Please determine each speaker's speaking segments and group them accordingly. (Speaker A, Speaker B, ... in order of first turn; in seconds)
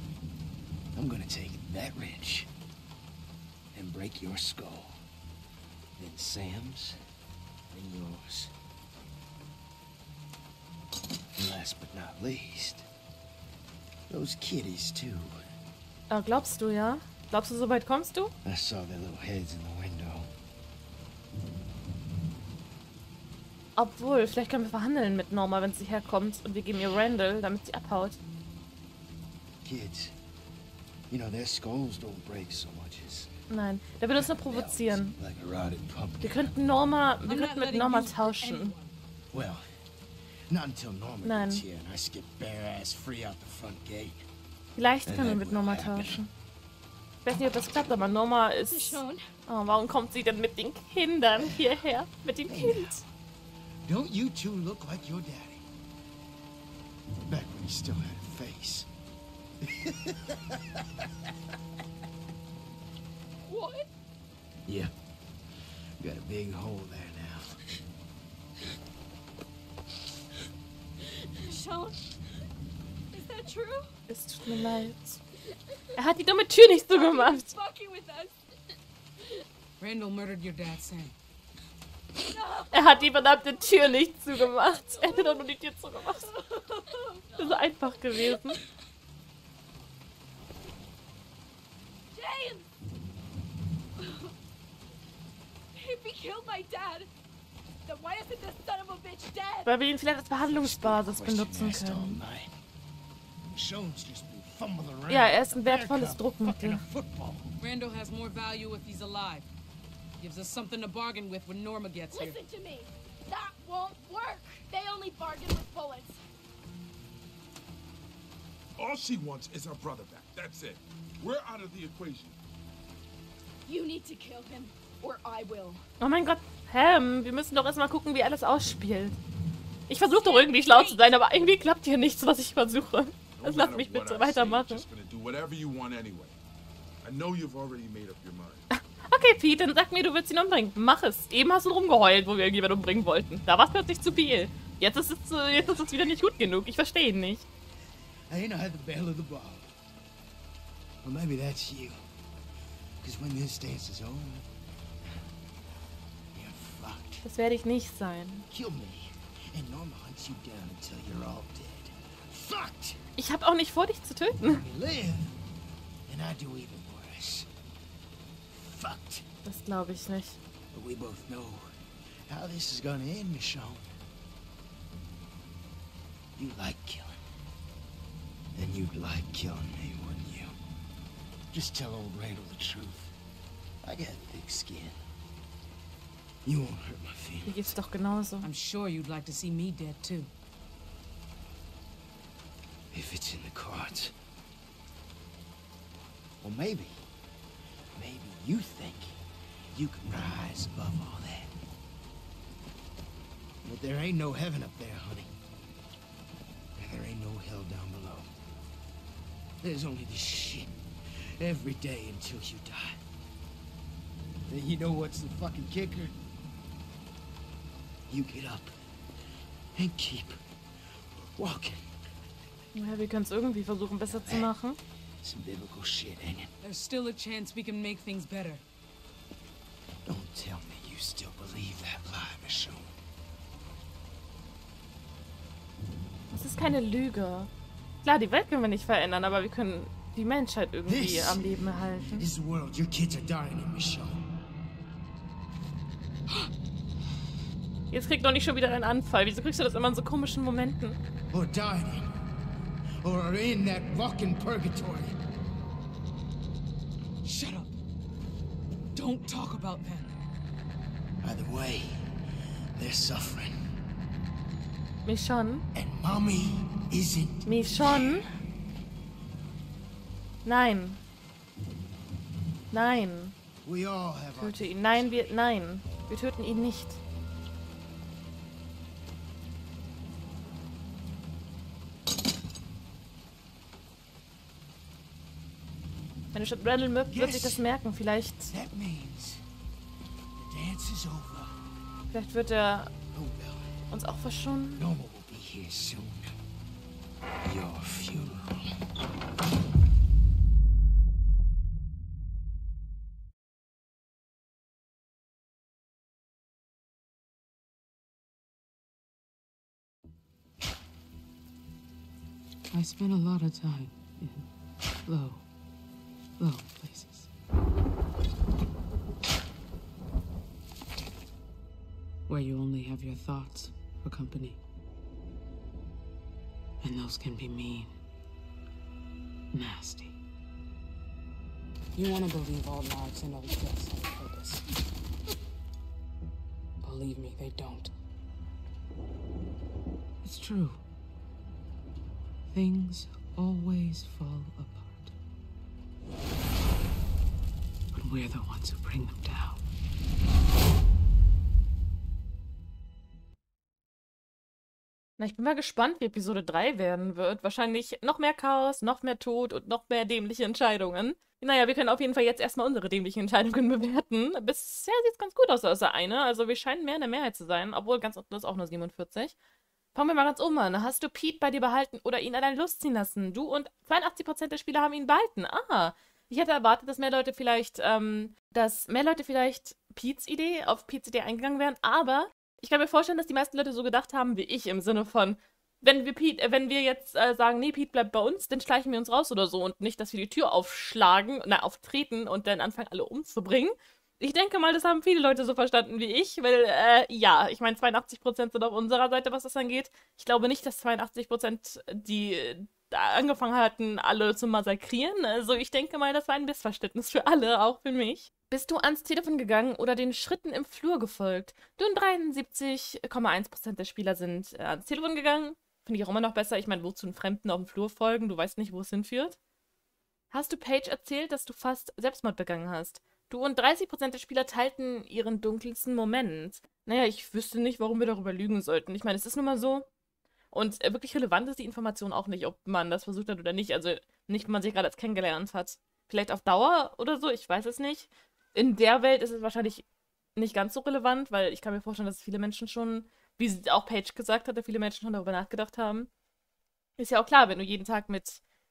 Speaker A: 0.9-2.5, 3.7-5.0, 6.0-7.0, 7.7-8.5, 11.3-12.8, 14.1-15.4, 18.4-20.3, 29.6-30.2, 31.1-33.3, 34.1-36.5, 39.3-39.7, 40.5-44.2, 45.0-46.2, 51.4-51.6, 52.5-53.0, 53.8-55.6, 57.3-58.9, 59.6-61.0, 64.7-64.9, 66.0-67.6, 100.5-102.5, 103.5-107.5, 148.3-149.8, 151.0-152.0, 153.0-154.5, 155.0-155.3, 156.3-157.2, 158.5-163.0, 164.4-165.4, 166.1-167.5, 168.5-169.2, 170.7-171.7, 172.3-173.9, 176.3-177.2, 178.5-180.6, 181.5-183.1, 183.8-185.0, 186.4-187.8, 192.9-194.1, 196.4-197.0, 197.9-199.2, 199.7-201.5, 203.6-205.3, 206.8-208.3, 209.6-213.0, 214.5-216.2, 218.1-218.7, 219.7-220.4, 220.9-221.9, 224.1-224.5, 225.2-226.5, 230.0-233.0, 240.9-244.2, 251.3-252.1, 253.0-255.2, 261.2-262.2, 262.7-263.7, 265.7-268.2, 273.6-275.4, 287.1-287.6, 288.5-289.4, 290.4-291.6, 293.1-293.8, 294.8-296.4, 297.4-298.6
Speaker B: 16.1-18.3, 23.8-28.2, 33.5-35.1, 36.2-38.7, 41.2-41.6, 44.8-46.3, 47.2-53.0, 74.1-75.2, 76.0-77.5, 82.7-86.3, 87.4-88.6, 99.7-102.2, 105.1-106.8, 126.0-129.2, 129.9-134.8, 138.7-147.4, 157.2-158.4, 163.2-164.6, 169.4-170.4, 187.5-188.5, 222.7-224.8, 236.3-237.5, 238.0-242.3, 247.9-251.0, 265.0-265.6, 267.4-268.3, 270.4-271.0, 272.7-273.3, 274.4-277.0, 286.3-288.5, 292.1-292.9, 293.9-294.8, 355.2-369.3, 369.9-419.4, 420.3-429.9, 430.5-439.8, 440.4-446.1, 447.0-448.4
Speaker C: 37.2-38.9, 79.8-81.2, 107.6-109.5, 110.2-112.4, 188.4-190.3, 226.6-228.6, 257.2-257.7, 258.9-260.2, 312.7-314.5, 315.0-315.4, 316.4-317.3, 322.3-324.6, 326.8-327.9, 329.5-330.1, 331.9-334.7, 336.8-337.9, 340.2-340.8, 342.5-345.1, 347.9-349.6
Speaker D: 48.7-49.3, 63.4-63.9, 71.2-72.0, 73.1-73.9, 76.7-78.4, 82.3-88.6, 92.1-92.7, 94.0-94.3, 95.7-97.1, 97.8-99.7, 112.1-116.2, 123.7-125.8, 130.1-131.1
Speaker E: 118.8-122.4, 133.4-136.4, 137.0-138.7